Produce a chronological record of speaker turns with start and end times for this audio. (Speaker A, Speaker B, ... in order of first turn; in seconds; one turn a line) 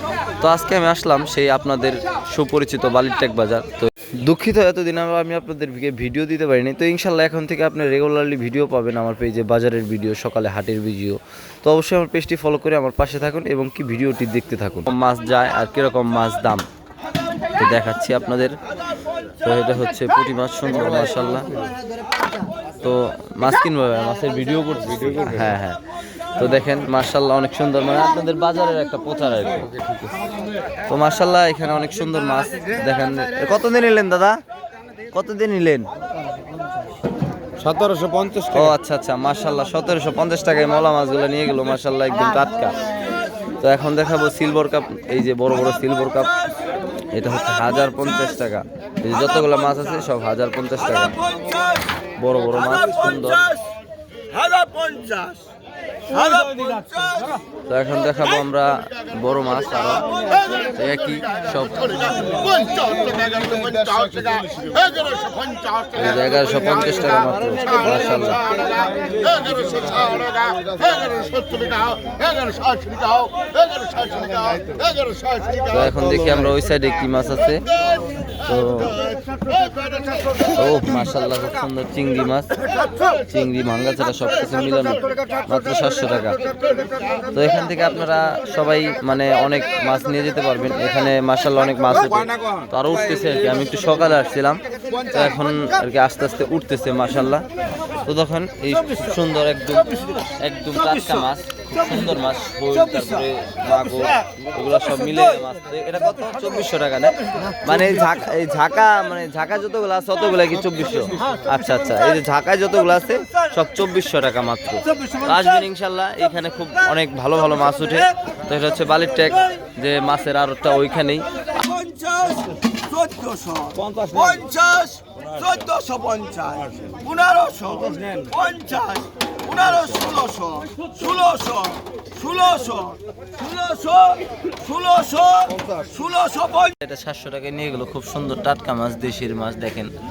Speaker A: 0.4-16.6
Speaker A: 17.6-18.6
Speaker A: 19.4-21.6
Speaker B: 21.4-21.7
Speaker A: 22.8-25.8
Speaker A: 26.4-29.7
Speaker A: 30.9-34.4
Speaker A: 35.1-35.9
Speaker B: 37.6-38.7
Speaker A: 38.5-42.9
Speaker A: 43.6-46.4
Speaker A: 47.1-51.2
Speaker C: 51.1-52.1
Speaker A: 52.2-53.5
Speaker C: 52.6-53.6
Speaker C: 54.3-55.5
Speaker C: 56.1-57.4
Speaker A: 57.7-62.5
Speaker C: 62.6-65.8
Speaker B: 63.7-64.4
Speaker A: 65.9-68.7
Speaker B: 68.7-71.6
Speaker C: 72.2-74.3
Speaker B: 74.2-74.9
Speaker A: 75.7-77.6
Speaker A: 78.4-79.0
Speaker A: 80.5-82.5
Speaker A: 83.3-86.4
Speaker A: 87.3-97.5
Speaker B: 92.2-92.7
Speaker A: 98.0-121.3
Speaker C: 121.5-136.8
Speaker B: 123.8-124.3
Speaker A: 136.8-139.9